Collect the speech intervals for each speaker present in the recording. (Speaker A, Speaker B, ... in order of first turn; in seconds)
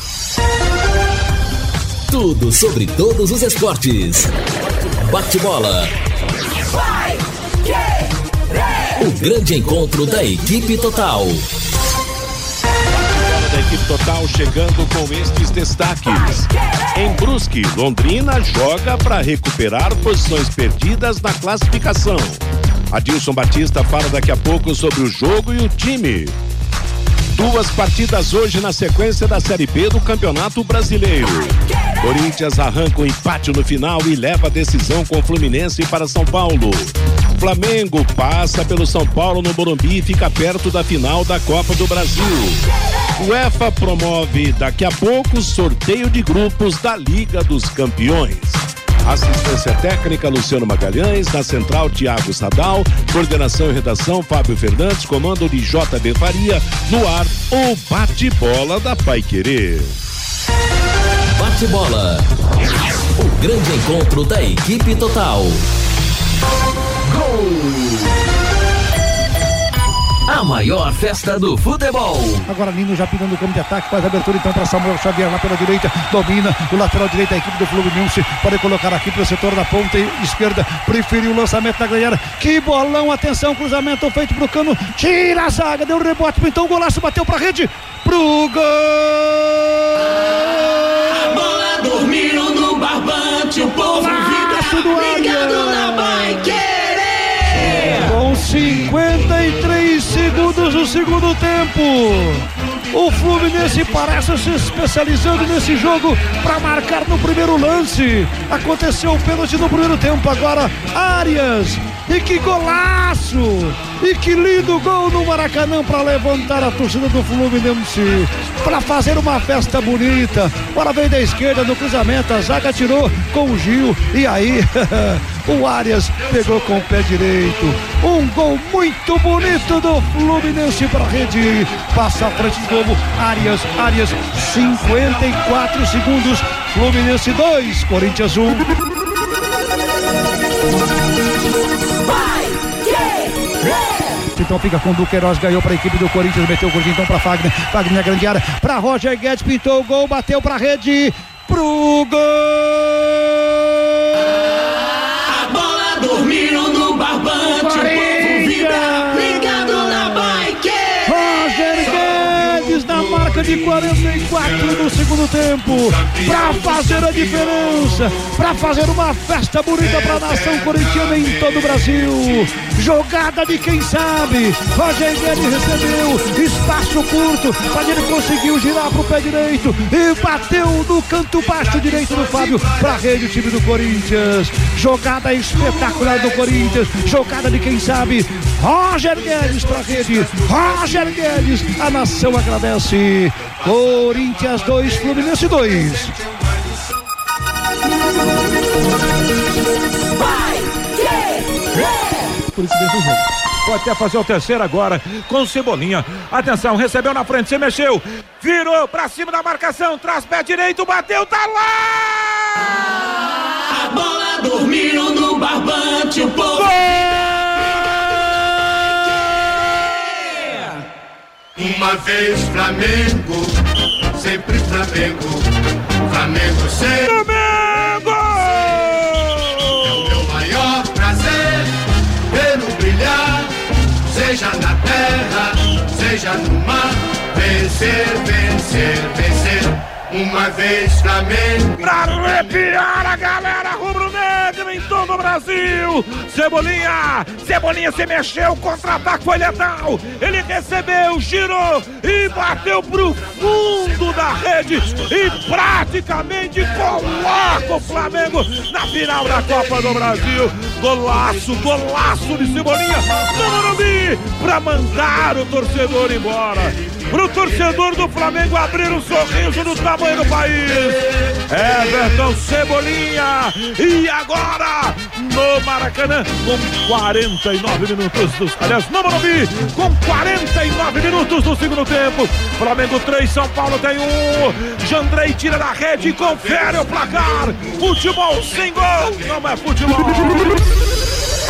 Speaker A: 2.1-4.3, 5.1-5.9, 9.0-11.4, 61.4-62.2, 63.2-65.7, 67.1-68.2, 70.3-72.5
Speaker B: 12.9-26.4, 27.3-42.6, 43.2-60.0
Speaker C: 72.5-90.7, 93.8-96.5, 97.8-138.7, 144.3-153.3, 157.5-160.5, 161.1-196.2
Speaker D: 91.1-98.2, 155.3-161.6, 213.7-216.7
Speaker E: 202.5-212.7, 216.6-217.3, 227.0-230.0, 241.8-290.5
Speaker F: 221.6-223.6, 224.1-225.5, 226.1-227.2, 229.9-231.7, 232.3-233.5, 234.1-241.8